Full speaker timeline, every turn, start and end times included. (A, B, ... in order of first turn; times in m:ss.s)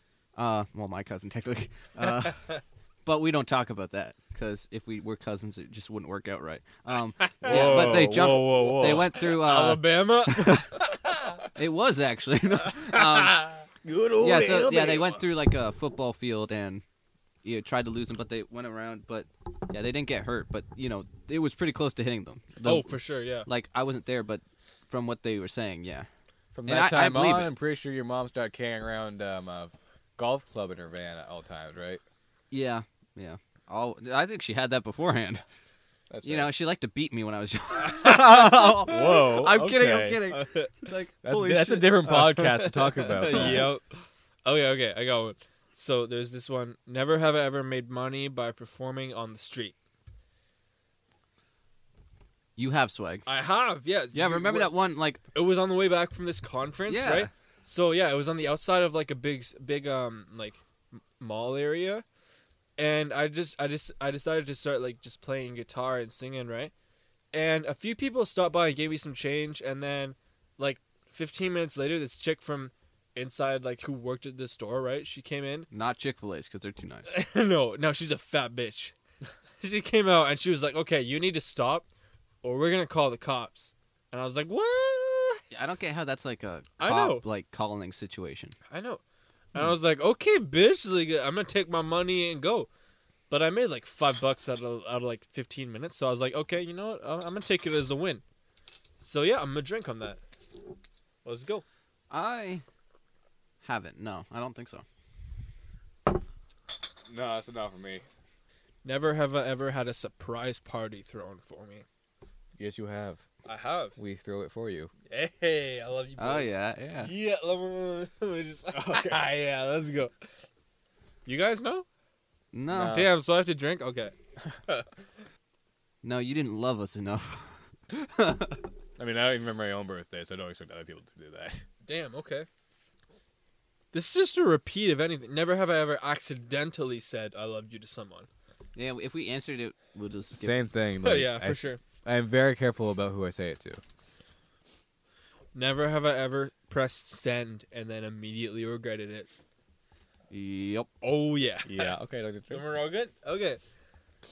0:00.4-0:02.4 A
0:03.0-0:10.7 A
0:07.2-0:11.4 B
0:07.4-0:09.2 C
0:11.5-0:13.5 A
0:12.6-0:13.6 B
0:13.8-0:15.2 C
0:14.2-0:16.8 A
0:14.7-0:15.0 B
0:17.4-0:26.1 A
0:22.6-0:23.5 B
0:26.5-0:32.0 C
0:26.6-0:27.5 A
0:32.5-0:35.4 A
0:36.1-0:36.5 C
0:36.2-0:41.9 A
0:37.9-0:38.8 B
0:38.8-0:40.2 C
0:40.3-0:40.8 B
0:41.2-0:43.7 C
0:42.0-0:49.7 B
0:43.3-0:43.6 A
0:52.6-0:53.2 A
0:53.2-0:54.7 B
0:54.1-0:55.2 A
0:55.3-1:00.6 B
0:56.9-0:57.3 A
1:01.2-1:02.0 B
1:02.8-1:06.7 B
1:07.3-1:15.7 B
1:15.7-1:17.1 A
1:17.1-1:18.9 B
1:19.6-1:21.8 B
1:22.4-1:25.4 B
1:25.5-1:28.6 A
1:26.8-1:27.2 B
1:28.7-1:29.0 B
1:29.5-1:32.7 B
1:33.3-1:38.2 B
1:39.0-1:40.2 B
1:41.2-1:41.6 B
1:42.1-1:42.6 A
1:43.6-1:44.8 A
1:47.1-1:48.0 C
1:48.8-1:51.8 B
1:52.6-1:53.2 C
1:53.4-1:54.0 B
1:54.0-1:54.9 C
1:55.1-2:00.1 B
1:56.2-1:57.1 A
1:58.7-1:59.2 C
2:01.2-2:01.8 B
2:02.5-2:03.0 A
2:02.7-2:03.1 C
2:02.8-2:04.1 B
2:06.0-2:08.7 A
2:09.0-2:11.6 C
2:11.8-2:12.5 B
2:13.9-2:18.3 B
2:18.7-2:20.6 A
2:20.3-2:23.8 C
2:21.0-2:21.8 B
2:25.5-2:29.3 B
2:30.3-2:30.9 A
2:31.0-2:31.9 B
2:31.6-2:32.6 C
2:32.5-2:33.6 B